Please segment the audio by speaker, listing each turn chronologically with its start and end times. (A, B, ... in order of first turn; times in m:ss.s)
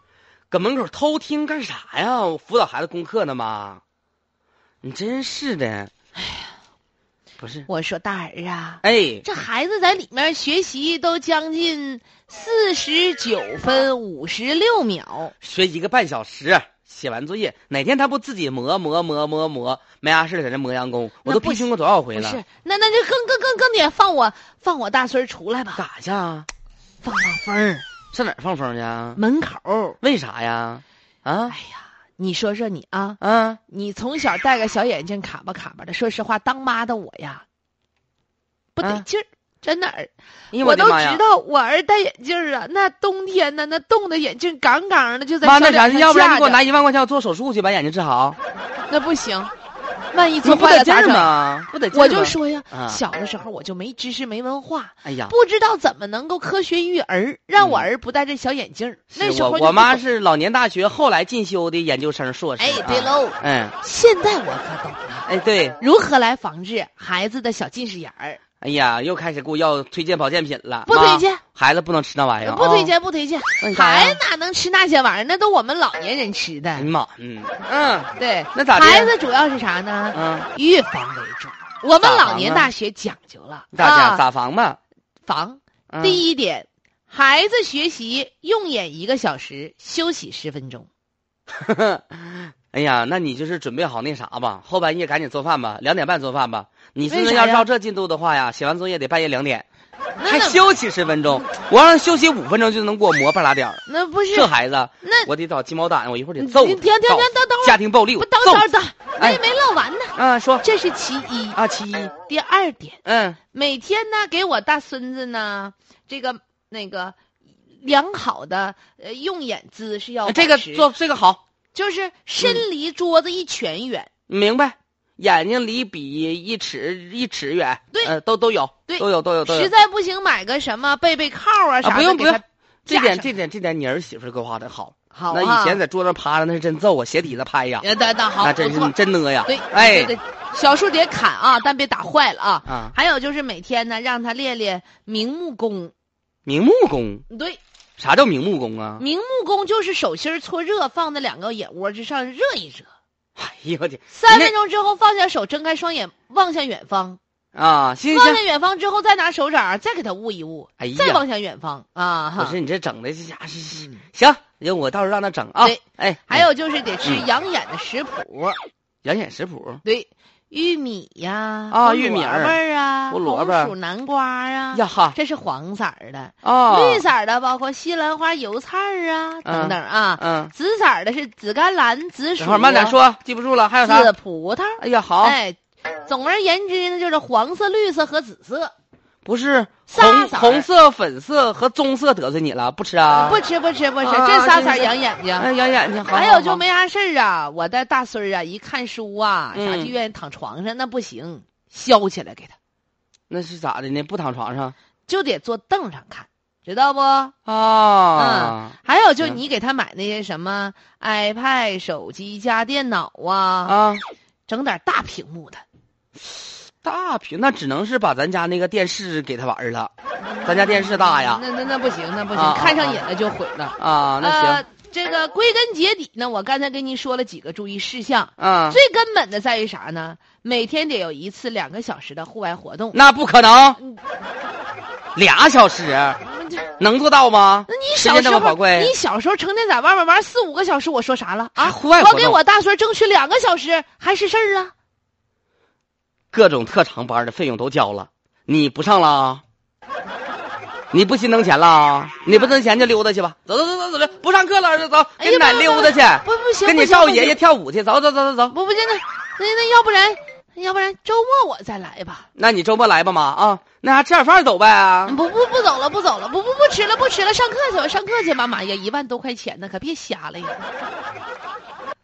0:00.5-0:03.8 A
0:04.8-0:05.9 A
0:06.2-0:06.5 B
0:07.4-0:07.7 A
0:07.7-0:15.3 B
0:08.8-0:09.2 A
0:15.4-0:22.4 A
0:21.2-0:25.8 B
0:25.8-0:26.5 A
0:27.0-0:27.8 B
0:28.1-0:29.2 A
0:29.2-0:30.0 B
0:30.0-0:31.5 A
0:31.5-0:37.4 B
0:33.2-0:33.6 A
0:38.8-0:46.6 B
0:40.5-0:41.2 A
0:45.4-0:48.4 A
0:48.9-0:49.5 B
0:50.1-0:51.3 B
0:50.4-0:53.0 A
0:51.9-1:00.0 B
0:55.0-0:55.3 A
0:57.6-0:57.9 A
0:59.1-1:03.7 A
1:02.6-1:05.3 B
1:05.2-1:05.8 A
1:05.8-1:08.4 B
1:08.6-1:12.9 A
1:10.9-1:11.4 B
1:12.4-1:16.9 B
1:13.6-1:14.2 A
1:16.8-1:19.1 A
1:18.2-1:24.2 B
1:20.1-1:20.5 A
1:22.0-1:22.7 A
1:23.7-1:24.8 A
1:25.2-1:30.9 B
1:25.9-1:26.2 A
1:31.5-1:39.6 A
1:37.1-1:37.6 B
1:40.2-1:40.6 B
1:40.2-1:43.8 A
1:43.9-1:44.5 B
1:44.3-1:49.4 A
1:45.0-1:45.3 B
1:46.4-1:51.6 B
1:50.1-1:50.6 A
1:51.5-1:52.1 A
1:52.2-1:53.0 B
1:53.0-1:53.4 A
1:53.5-1:57.2 B
1:57.8-2:00.9 B
2:00.2-2:01.4 A
2:01.7-2:04.1 B
2:02.4-2:02.6 A
2:04.3-2:09.7 A
2:08.9-2:13.3 B
2:11.8-2:17.8 A
2:15.1-2:15.8 B
2:17.8-2:18.9 B
2:18.4-2:20.1 A
2:19.4-2:25.9 B
2:22.6-2:22.9 A
2:26.4-2:27.2 A
2:27.3-2:27.6 B
2:28.0-2:29.0 A
2:29.0-2:32.9 B
2:33.4-2:34.5 A
2:34.1-2:37.2 B
2:37.5-2:38.4 A
2:38.1-2:42.6 B
2:40.8-2:41.2 A
2:42.4-2:46.4 A
2:43.7-2:44.0 B
2:45.6-2:48.6 B
2:49.0-2:49.8 A
2:49.8-3:03.0 B
2:51.7-2:52.6 A
2:53.1-2:53.7 A
2:54.7-2:55.2 A
2:56.4-2:57.0 A
2:59.4-3:00.5 A
3:02.4-3:04.1 A
3:03.8-3:08.7 B
3:04.8-3:05.4 A
3:09.2-3:13.4 A
3:09.9-3:10.7 B
3:13.1-3:15.5 B
3:14.0-3:16.6 A
3:16.1-3:22.6 B
3:19.5-3:19.9 A
3:23.3-3:24.7 A
3:25.1-3:27.3 B
3:27.4-3:29.4 A
3:28.2-3:33.8 B
3:33.6-3:34.0 A
3:34.5-3:35.6 B
3:36.8-3:39.9 A
3:40.2-3:53.0 B
3:40.4-3:41.4 A
3:42.3-3:43.0 A
3:43.8-3:44.6 A
3:48.4-3:48.8 A
3:52.9-3:53.8 A
3:55.1-3:56.2 A
3:56.2-3:56.6 B
3:56.8-3:58.9 A
3:57.7-4:04.7 B
4:01.6-4:02.4 A
4:06.3-4:09.4 A
4:10.9-4:18.6 A
4:15.2-4:17.4 B
4:18.5-4:22.3 B
4:22.4-4:25.2 A
4:25.0-4:30.6 B